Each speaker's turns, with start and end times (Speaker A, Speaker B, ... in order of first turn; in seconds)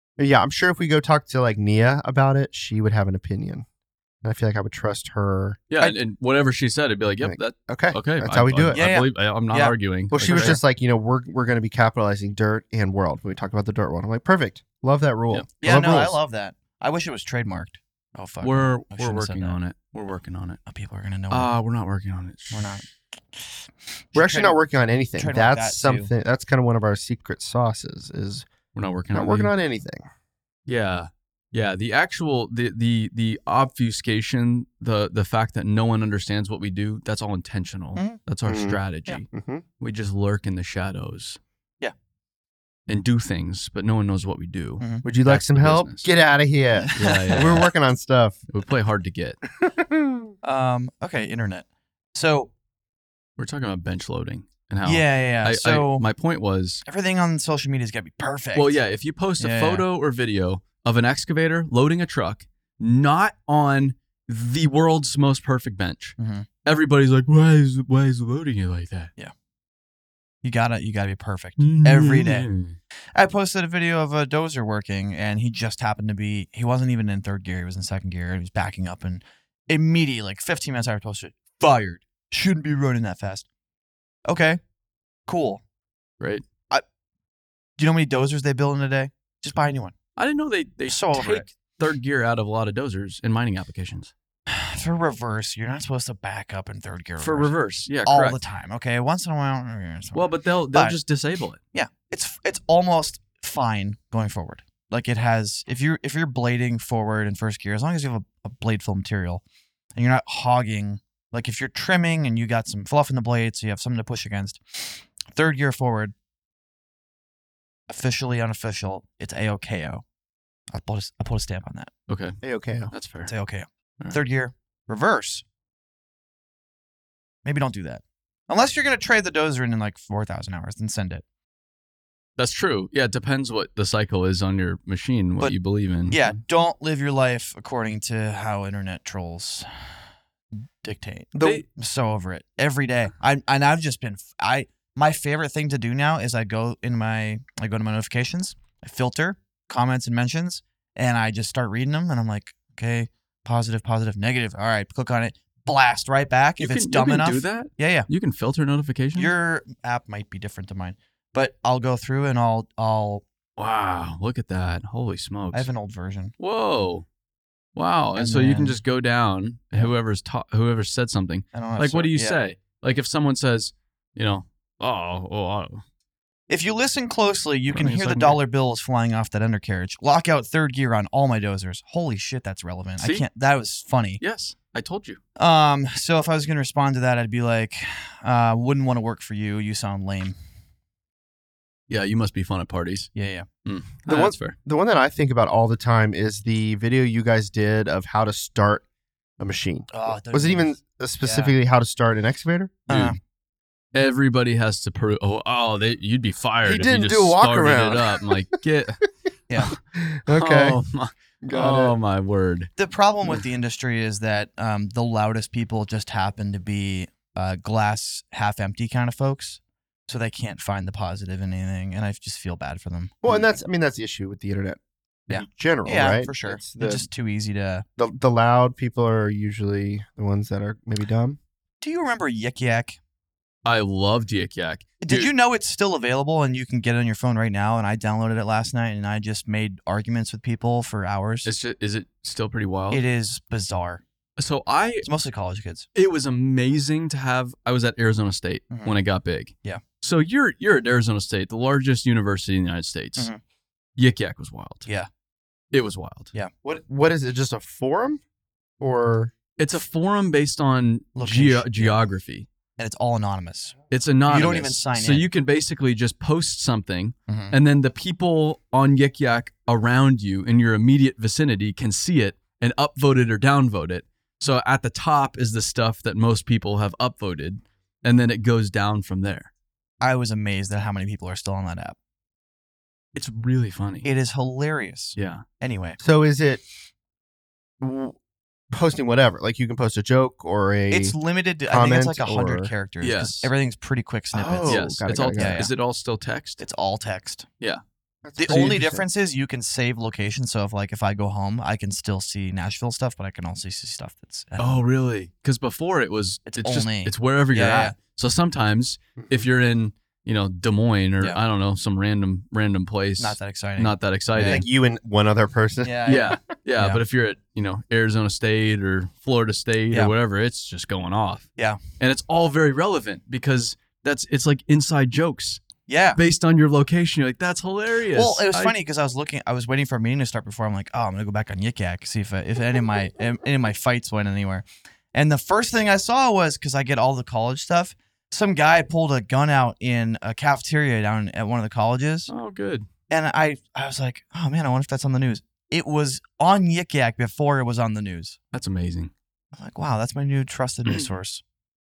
Speaker A: 0.2-3.6, 4.2-5.6, 7.2-8.8, 10.1-16.2, 24.1-28.5, 29.1-30.1, 38.5-38.8, 39.3-39.6, 45.0-48.4, 49.6-50.3, 122.4-122.9, 141.3-141.6, 194.1-198.8, 199.4-202.8, 206.6-208.3, 209.9-210.8, 211.4-211.9, 223.2-227.1, 228.0-231.4, 256.6-258.2, 258.8-259.3, 286.0-286.6, 287.8-288.1, 288.7-291.1, 291.7-292.7, 294.3-295.6, 298.2-299.0, 314.4-316.4
Speaker B: 5.7-10.6, 18.4-20.6, 21.3-22.8, 28.7-29.5, 30.7-39.3, 39.8-41.4, 42.9-46.1, 46.9-47.7, 48.5-49.4, 53.4-56.8, 58.5-69.1, 71.6-72.8, 90.2-94.1, 97.2-98.4, 100.1-101.6, 122.1-122.4, 122.9-123.3, 132.4-136.3, 141.4-141.6, 156.6-159.3, 163.6-165.7, 166.4-167.1, 167.8-175.8, 177.7-178.4, 183.0-183.2, 184.2-185.2, 191.9-193.1, 193.6-194.6, 202.9-203.2, 203.9-209.0, 210.3-212.7, 233.6-235.3, 241.4-243.0, 244.4-245.1, 245.9-253.3, 254.0-254.8, 255.7-256.3, 259.6-262.5, 263.9-279.5, 283.1-284.1, 285.1-285.4, 293.0-293.5, 294.6-296.6, 298.5-298.8, 304.6-314.6, 316.1-321.5, 322.0-325.6, 326.1-328.7, 342.3-342.9, 348.5-349.1
Speaker C: 8.7-10.6, 15.6-19.6, 20.7-21.5, 22.5-24.6, 25.2-26.1, 46.8-47.5, 50.4-52.5, 54.8-56.0, 56.9-58.8, 59.4-59.8, 66.2-66.5, 70.4-72.5, 73.1-83.5, 84.3-84.6, 85.3-85.6, 87.8-89.9, 90.9-91.5, 94.5-97.5, 98.0-101.0, 101.7-109.4, 110.0-116.1, 117.9-120.0, 120.7-121.9, 123.3-125.4, 127.4-131.2, 136.1-139.9, 140.8-158.1, 159.2-163.2, 165.5-166.3, 168.2-168.8, 171.5-172.4, 176.5-184.2, 185.4-190.3, 193.1-193.5, 199.9-201.5, 202.9-203.2, 212.8-223.2, 225.3-227.8, 231.8-233.0, 235.0-241.5, 242.9-244.0, 245.0-245.9, 248.7-249.0, 261.1-262.0, 262.8-265.3, 267.3-267.5, 280.0-281.9, 284.0-286.0, 290.9-295.7, 296.6-297.5, 298.4-304.8, 306.5-307.9, 313.2-314.6, 315.8-317.0, 325.9-326.2, 328.1-342.3, 343.1-348.4, 349.5-351.4